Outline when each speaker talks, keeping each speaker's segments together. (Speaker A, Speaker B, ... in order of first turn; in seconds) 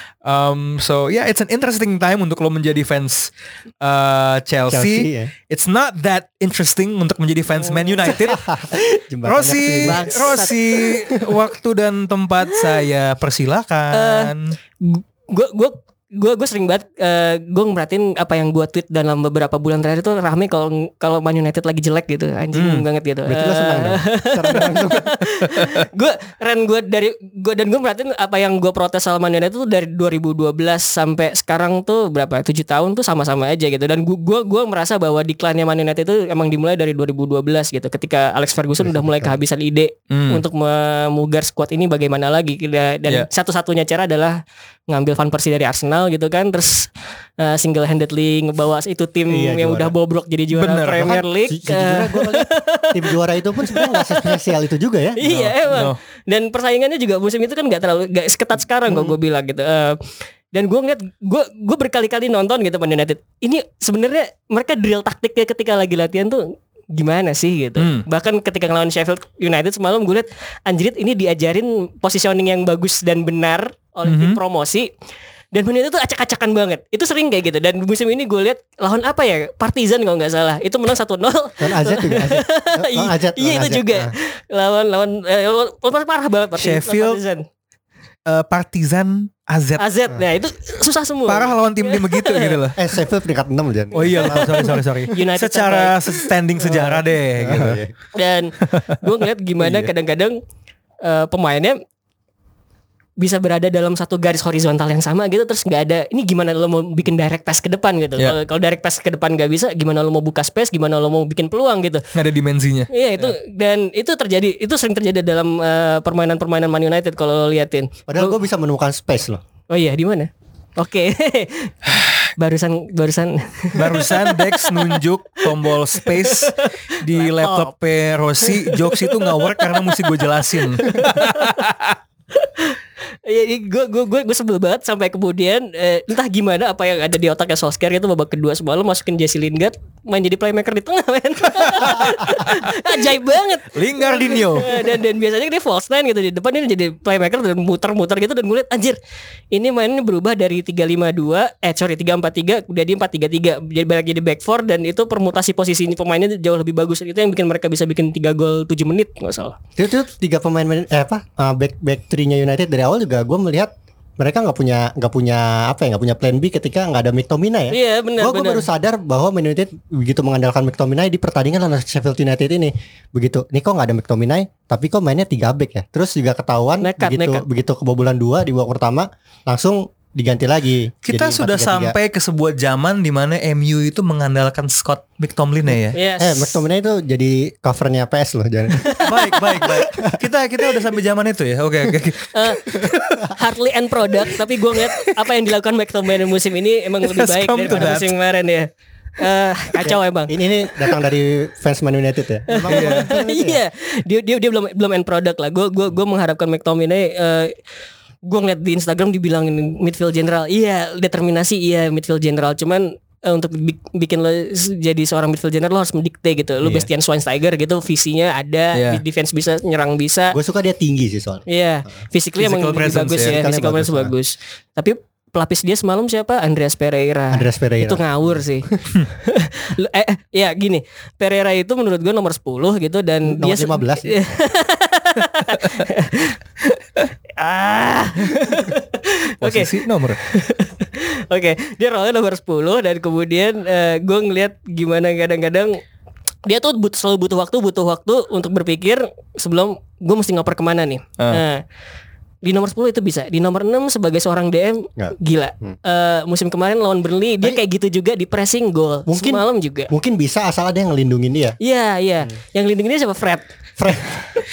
Speaker A: 0.2-14.5, 22.5-22.8, 40.1-40.4, 50.5-51.2, 55.6-56.0, 67.8-68.0, 74.0-74.4, 86.5-87.2, 88.3-89.8, 91.3-92.8, 94.0-97.8, 112.1-113.3, 123.7-132.0, 141.6-142.7, 143.7-144.9, 181.1-186.0, 189.0-193.3, 197.0-198.1, 202.7-203.1, 218.7-219.0, 222.4-223.4, 239.4-240.2
Speaker B: 4.7-5.3, 8.1-10.1, 23.3-25.1, 38.8-39.4, 49.3-49.9, 51.0-55.5, 58.9-59.1, 81.6-84.1, 92.8-94.8, 96.6-97.9, 118.1-119.4, 159.8-181.9, 186.2-190.2, 199.8-203.6, 216.6-216.9, 220.3-222.0, 223.1-224.1, 227.3-228.8, 233.3-234.1, 255.0-255.8, 259.1-261.6, 263.8-264.4
Speaker C: 7.7-8.1, 9.8-10.9, 13.9-53.1, 53.6-54.4, 55.2-74.9, 75.5-87.5, 89.8-92.5, 94.0-96.1, 98.1-100.4, 101.0-101.8, 103.2-112.0, 112.9-118.3, 119.7-121.7, 122.4-125.0, 126.0-127.7, 128.4-131.6, 132.3-149.0, 149.5-159.6, 167.7-168.6, 176.8-177.4, 185.9-186.6, 188.8-189.1, 192.3-192.6, 193.3-200.9, 202.5-207.5, 208.2-220.3, 221.5-236.4, 237.3-245.8, 246.4-251.6, 252.4-259.9, 261.6-263.5